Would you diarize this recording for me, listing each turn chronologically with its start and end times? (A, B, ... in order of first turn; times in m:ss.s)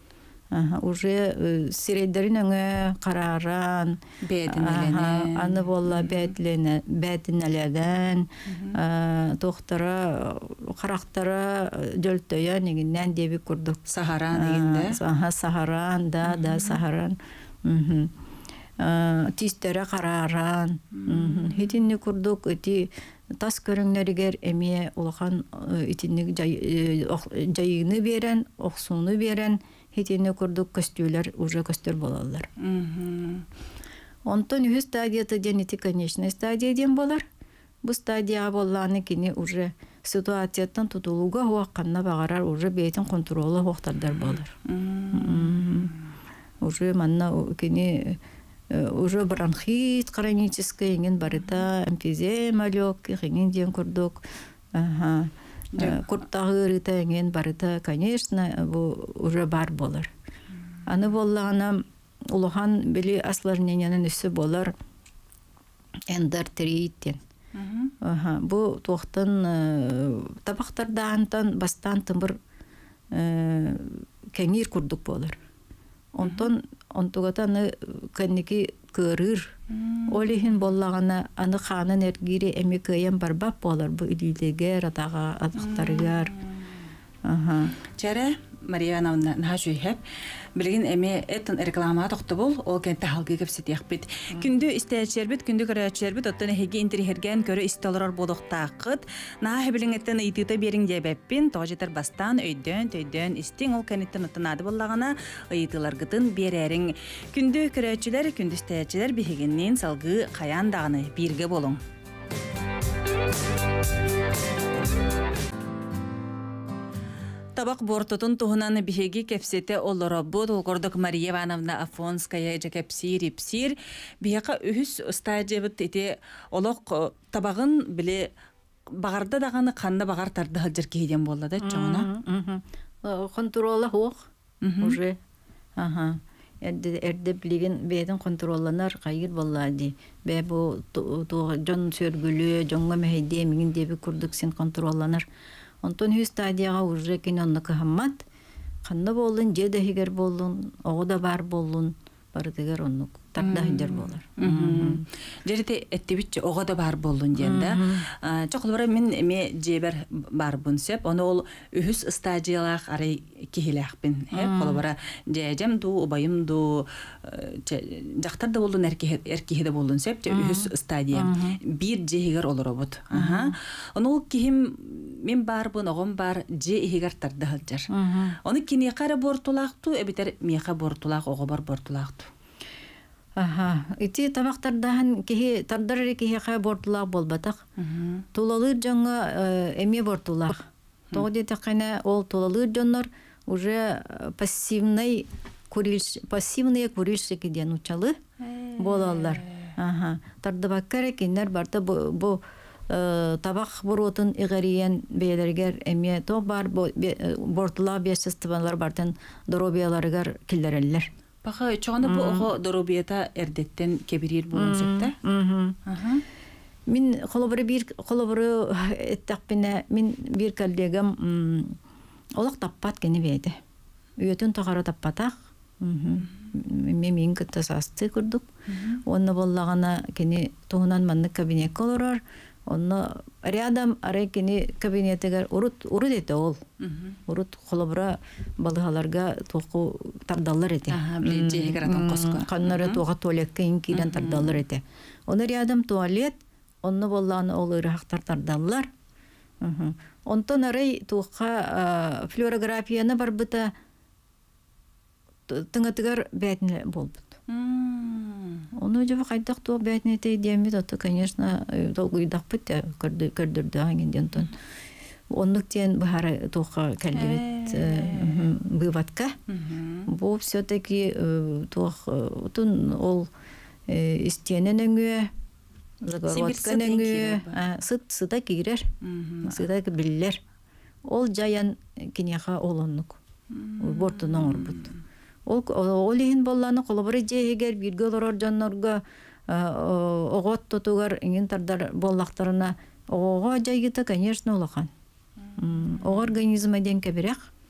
0:00.5-0:13.8 A
0:04.2-0:06.3 B
0:08.5-0:08.8 B
0:13.9-0:15.0 B
0:14.3-0:18.1 A
0:16.3-0:16.8 B
0:18.8-0:32.5 A
0:21.0-0:21.6 B
0:32.6-0:33.5 B
0:34.3-0:37.2 A
0:37.8-0:44.5 A
0:44.0-0:46.0 B
0:45.1-0:45.9 A
0:46.6-0:48.2 A
0:48.7-0:54.2 A
0:54.7-1:00.1 A
0:55.8-0:56.1 B
1:00.9-1:04.7 A
1:06.1-1:07.2 A
1:07.6-1:07.9 B
1:08.0-1:12.4 A
1:13.1-1:15.4 A
1:16.1-1:19.6 A
1:16.2-1:16.5 B
1:19.7-1:20.5 B
1:20.1-1:26.3 A
1:25.6-1:26.5 B
1:27.2-1:27.7 A
1:27.9-1:30.0 B
1:30.6-1:51.8 B
1:57.6-2:08.3 B
2:09.0-2:12.1 B
2:11.6-2:14.3 A
2:14.6-2:15.0 B
2:14.8-2:15.2 A
2:15.8-2:25.3 A
2:25.8-2:28.2 A
2:28.8-2:35.0 A
2:33.4-2:57.9 B
2:37.4-2:38.1 A
2:44.3-2:44.8 A
2:50.3-2:51.6 A
2:53.1-2:53.6 A
2:57.9-2:58.4 A
2:58.4-3:02.3 B
3:03.4-3:07.6 A
3:07.8-3:08.2 B
3:08.3-3:18.2 A
3:18.4-3:19.8 B
3:18.8-3:31.1 A
3:31.4-3:35.1 B
3:32.0-3:32.5 A
3:34.6-3:35.8 A
3:35.9-3:36.2 B
3:36.9-3:41.8 A
3:42.4-3:43.6 A
3:44.2-3:48.5 A
3:48.7-3:49.0 B
3:49.1-3:56.6 A
3:56.8-3:57.2 B
3:57.3-4:08.9 A
4:00.9-4:03.0 B
4:03.9-4:04.6 B
4:09.6-4:13.7 A
4:15.5-4:17.3 A
4:17.5-4:18.7 B
4:18.7-4:24.5 A
4:25.3-4:29.4 A
4:27.1-4:28.5 B
4:29.5-4:30.1 B
4:30.1-4:33.3 A
4:33.9-4:35.3 A
4:36.0-4:38.9 A
4:36.3-4:37.6 B
4:39.0-4:39.6 B
4:39.4-4:40.4 A
4:41.1-4:43.2 A
4:43.5-4:45.0 B
4:43.8-4:44.9 A
4:45.5-4:54.9 A
4:55.5-4:56.3 B
4:55.6-4:57.5 A